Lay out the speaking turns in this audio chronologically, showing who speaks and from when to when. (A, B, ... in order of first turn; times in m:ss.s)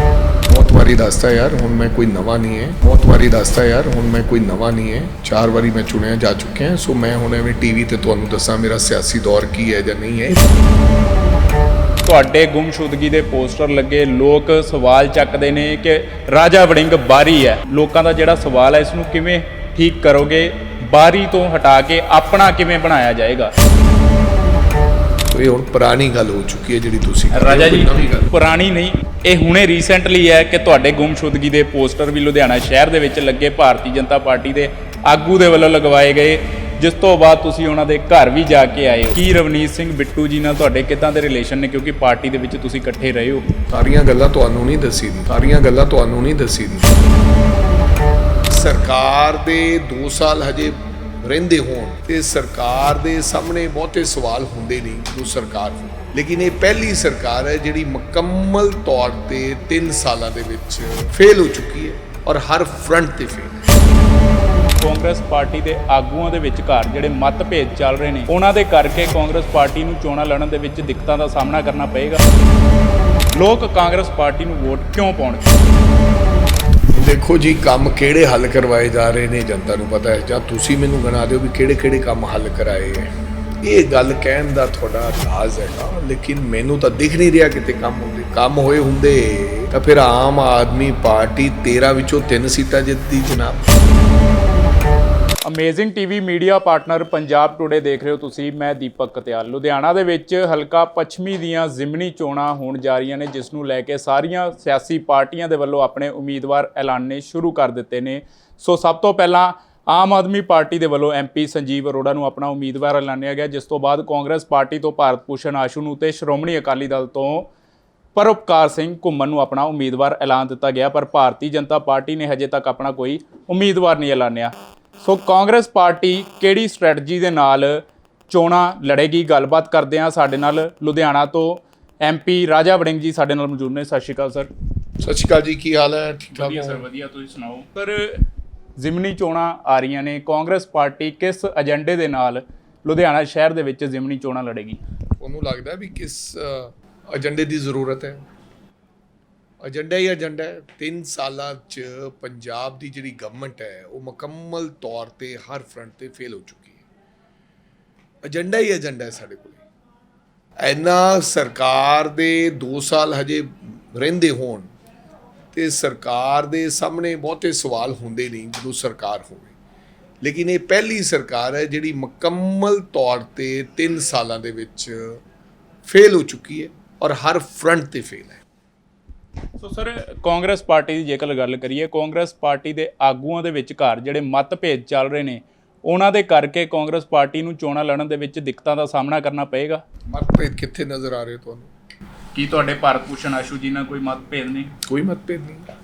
0:00.5-0:10.4 A
0:12.0-0:23.5 B
0:25.2-0:28.3 A
0:27.3-0:43.4 B
0:43.7-0:47.1 A
0:48.5-1:03.8 A
1:04.8-1:12.2 B
1:13.3-1:15.5 B
1:16.9-1:33.9 A
1:35.4-1:57.5 B
1:58.1-2:14.5 B
2:15.0-2:16.8 A
2:16.3-2:18.2 B
2:18.8-2:24.8 B
2:25.2-2:28.3 A
2:29.6-2:36.8 A
2:38.2-2:39.6 A
2:40.6-2:44.7 A
2:45.5-2:49.5 A
2:50.2-2:55.2 A
2:55.8-2:58.4 A
2:59.6-3:09.8 B
3:10.1-3:11.7 A
3:12.3-3:14.7 B
3:14.8-3:15.7 A